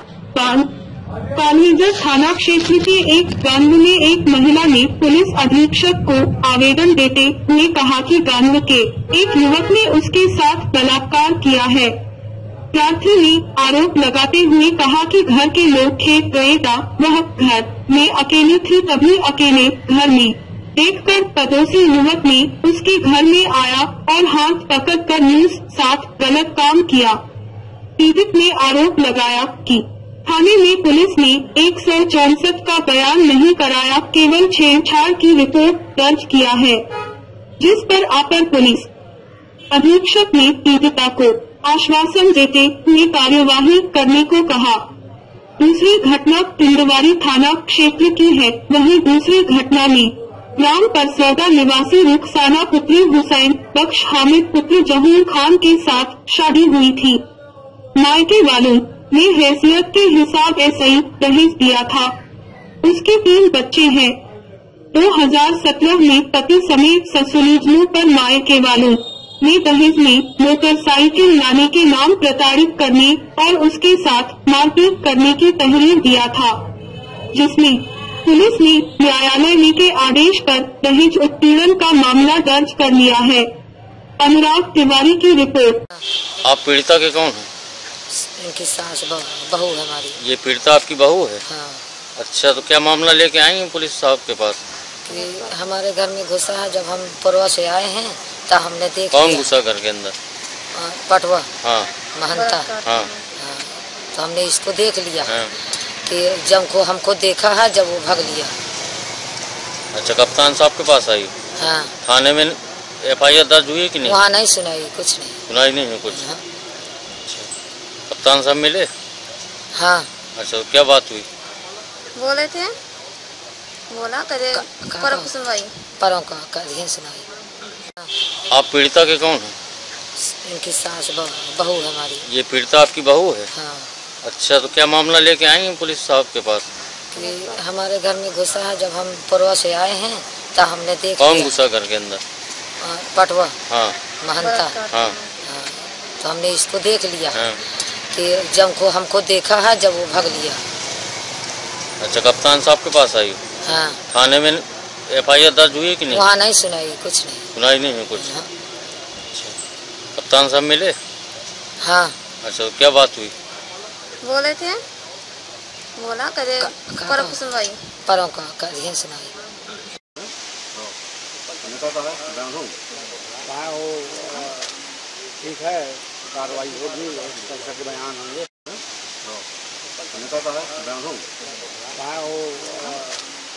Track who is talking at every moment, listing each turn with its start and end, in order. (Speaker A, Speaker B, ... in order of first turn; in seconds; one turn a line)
Speaker A: 0.3-0.7
Speaker A: 1.3-12.0
Speaker A: 12.7-27.2
Speaker A: 28.0-36.8
Speaker A: 37.6-38.9
Speaker A: 39.7-44.9
Speaker A: 45.6-57.2
Speaker A: 58.0-62.1
Speaker A: 62.8-64.2
Speaker A: 64.9-76.6
Speaker A: 77.3-83.5
Speaker A: 84.2-85.8
Speaker B: 86.4-87.5
Speaker C: 88.1-90.2
Speaker B: 90.2-91.4
Speaker C: 91.5-91.8
Speaker B: 92.2-94.6
Speaker C: 95.0-99.5
Speaker B: 99.1-100.2
Speaker C: 100.7-101.5
Speaker B: 101.6-101.9
Speaker C: 102.2-102.7
Speaker D: 102.3-103.2
Speaker B: 102.8-103.1
Speaker C: 103.4-105.3
Speaker B: 105.3-105.5
Speaker C: 106.0-108.6
Speaker B: 109.9-111.3
Speaker C: 111.6-111.9
Speaker B: 112.0-114.2
Speaker C: 114.0-115.4
Speaker B: 115.5-116.2
Speaker C: 116.1-116.4
Speaker B: 118.1-118.9
Speaker C: 119.7-120.1
Speaker B: 120.4-121.3
Speaker D: 122.2-122.8
Speaker D: 123.9-125.7
Speaker C: 124.5-125.3
Speaker C: 126.0-127.3
Speaker B: 128.5-129.6
Speaker C: 130.2-132.3
Speaker B: 132.3-133.5
Speaker C: 133.5-133.9
Speaker B: 134.2-136.7
Speaker C: 137.1-141.6
Speaker D: 137.2-137.5
Speaker B: 141.2-142.2
Speaker C: 142.8-143.6
Speaker B: 143.7-144.0
Speaker C: 144.2-144.8
Speaker D: 144.4-145.2
Speaker C: 145.4-147.4
Speaker B: 147.3-147.6
Speaker C: 148.1-150.6
Speaker B: 152.0-153.4
Speaker C: 153.6-154.0
Speaker B: 154.1-156.2
Speaker C: 156.1-157.5
Speaker B: 157.5-158.4
Speaker C: 158.2-158.5
Speaker B: 160.2-161.0
Speaker C: 161.8-162.2
Speaker B: 162.4-163.3
Speaker D: 164.2-164.8
Speaker D: 166.0-167.8
Speaker C: 166.6-167.4
Speaker C: 168.1-169.4
Speaker E: 171.8-172.6
Speaker E: 173.5-174.7
Speaker E: 175.4-178.5
Speaker E: 180.3-181.1
Speaker E: 182.0-183.2